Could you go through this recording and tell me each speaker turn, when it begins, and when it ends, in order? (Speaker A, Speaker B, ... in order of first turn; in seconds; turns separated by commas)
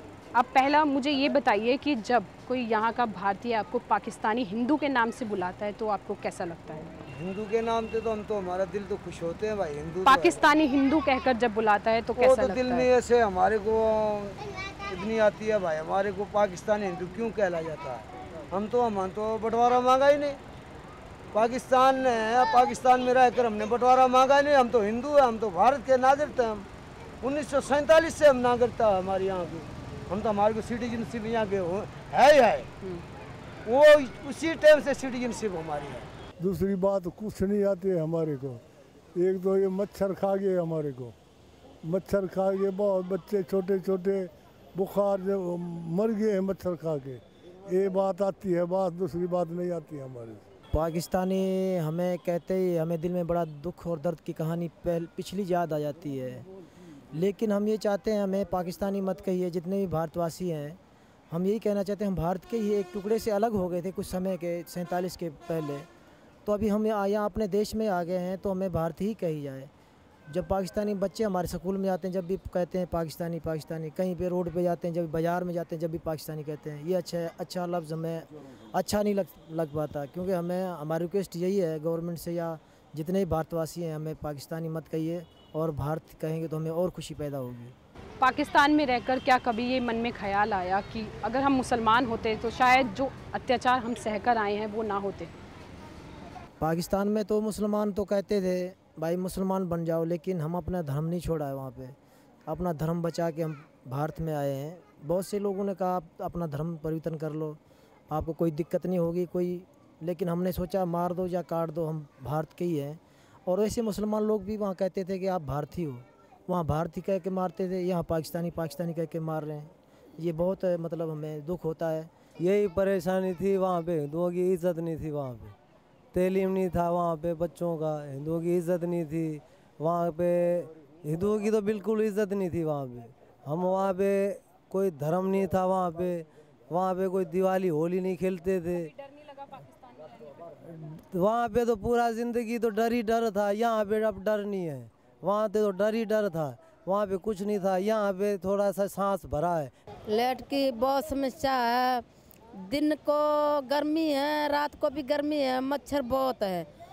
Speaker A: 0.3-6.9, Speaker B: 7.1-10.4, Speaker A: 10.1-12.9, Speaker B: 12.2-14.4, Speaker B: 14.9-20.4, Speaker B: 21.3-26.7, Speaker B: 27.2-32.7, Speaker B: 33.7-36.1, Speaker C: 36.4-38.6, Speaker C: 39.2-41.1, Speaker C: 41.9-50.4, Speaker D: 50.7-56.5, Speaker D: 57.2-60.8, Speaker D: 61.3-65.9, Speaker D: 66.5-69.7, Speaker D: 70.3-87.7, Speaker A: 88.2-95.3, Speaker D: 96.6-102.0, Speaker D: 102.5-107.6, Speaker D: 108.1-122.1, Speaker E: 122.4-125.5, Speaker E: 126.1-138.9, Speaker E: 140.7-149.7, Speaker F: 150.1-152.0, Speaker F: 152.6-156.7